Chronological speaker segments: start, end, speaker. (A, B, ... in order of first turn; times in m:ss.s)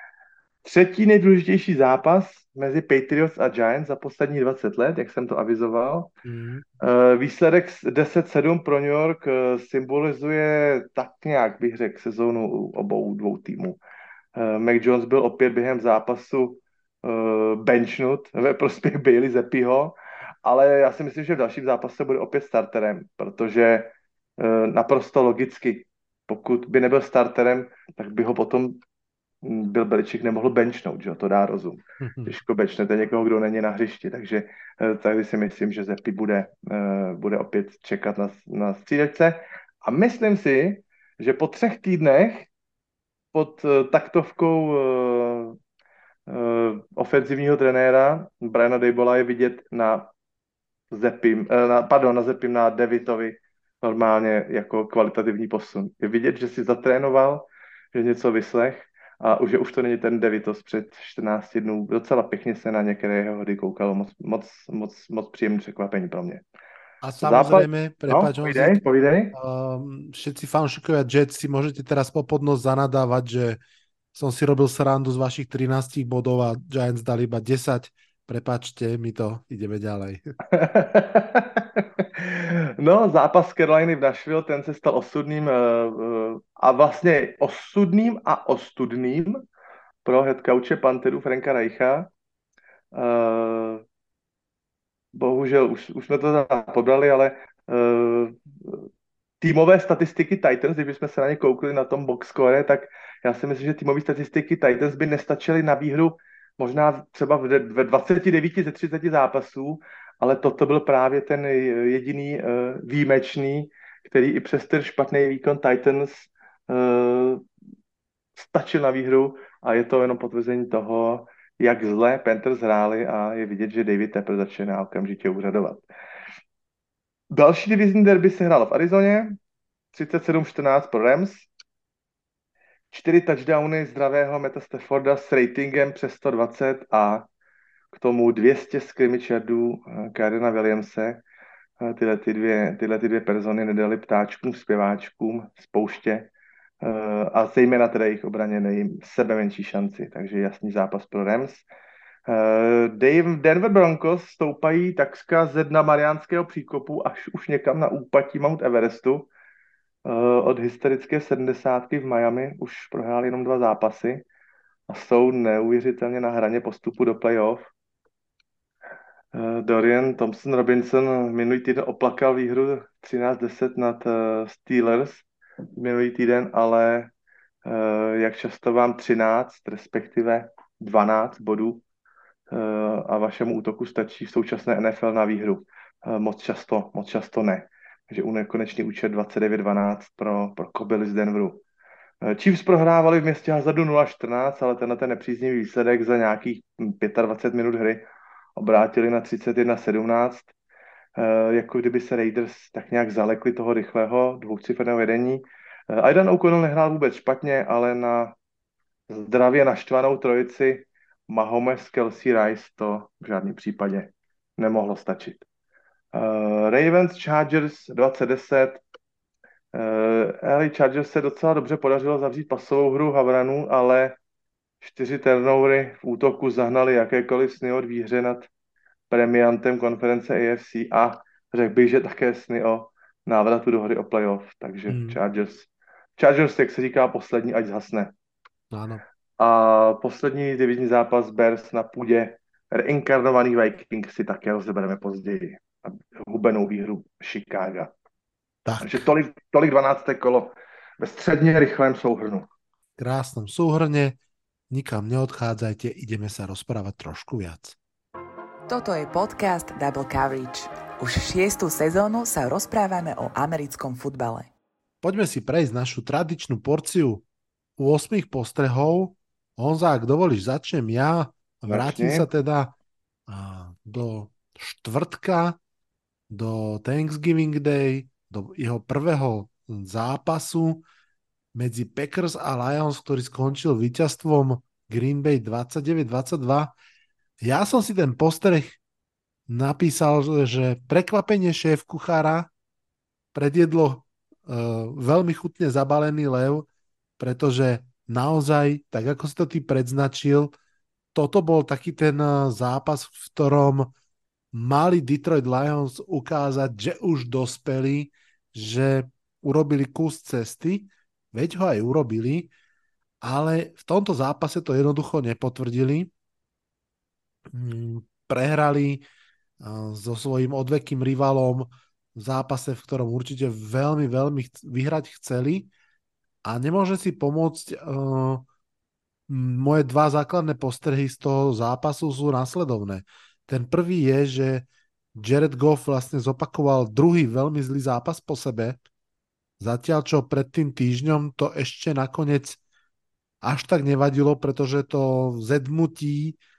0:00.6-0:06.1 A
0:06.2-0:06.6 B
0:06.8-0:13.8 A
0:14.4-0:28.8 A
0:29.4-0:42.5 A
0:32.0-0:32.3 B
0:43.3-0:45.6 A
0:46.3-0:50.1 A
0:50.9-1:06.4 A
1:07.0-1:08.8 B
1:07.2-1:09.3 A
1:09.3-1:13.6 B
1:14.1-1:20.3 B
1:20.5-1:29.4 A
1:30.0-1:32.1 A
1:32.9-1:33.8 A
1:35.1-1:38.8 A
1:39.4-1:57.4 A
1:58.4-2:05.8 A
2:07.3-2:09.4 A
2:09.9-2:11.5 A
2:12.9-2:17.2 A
2:17.9-2:21.2 A
2:21.8-2:26.3 A
2:26.8-2:31.6 A
2:32.3-2:39.3 A
2:40.0-2:44.2 A
2:44.9-2:47.7 A
2:49.3-2:55.2 A
2:55.8-2:57.1 A
2:57.6-3:01.8 A
3:02.5-3:11.6 A
3:12.2-3:18.0 A
3:18.6-3:20.5 A
3:21.2-3:28.3 A
3:29.1-3:35.4 A
3:36.1-3:38.8 A
3:39.7-3:44.2 A
3:44.8-3:48.5 A
3:49.1-3:58.1 A
3:54.9-3:55.2 B
3:58.7-3:59.0 B
3:59.4-4:07.9 A
4:08.6-4:09.0 B
4:08.8-4:12.5 A
4:13.0-4:14.2 B
4:14.7-4:17.8 B
4:18.7-4:24.5 C
4:25.0-4:27.2 B
4:27.8-4:32.7 B
4:31.7-4:32.3 A
4:33.3-4:35.6 B
4:36.3-4:40.8 B
4:41.5-4:46.7 B
4:47.4-4:48.8 B
4:49.5-4:52.5 B
4:53.3-4:56.7 B
4:57.2-5:00.5 B
5:01.1-5:03.9 B
5:04.5-5:12.5 B
5:13.2-5:16.1 B
5:17.5-5:19.0 B
5:19.6-5:25.7 B
5:26.4-5:28.4 B
5:29.3-5:38.8 B
5:39.6-5:42.6 B
5:43.4-5:46.4 B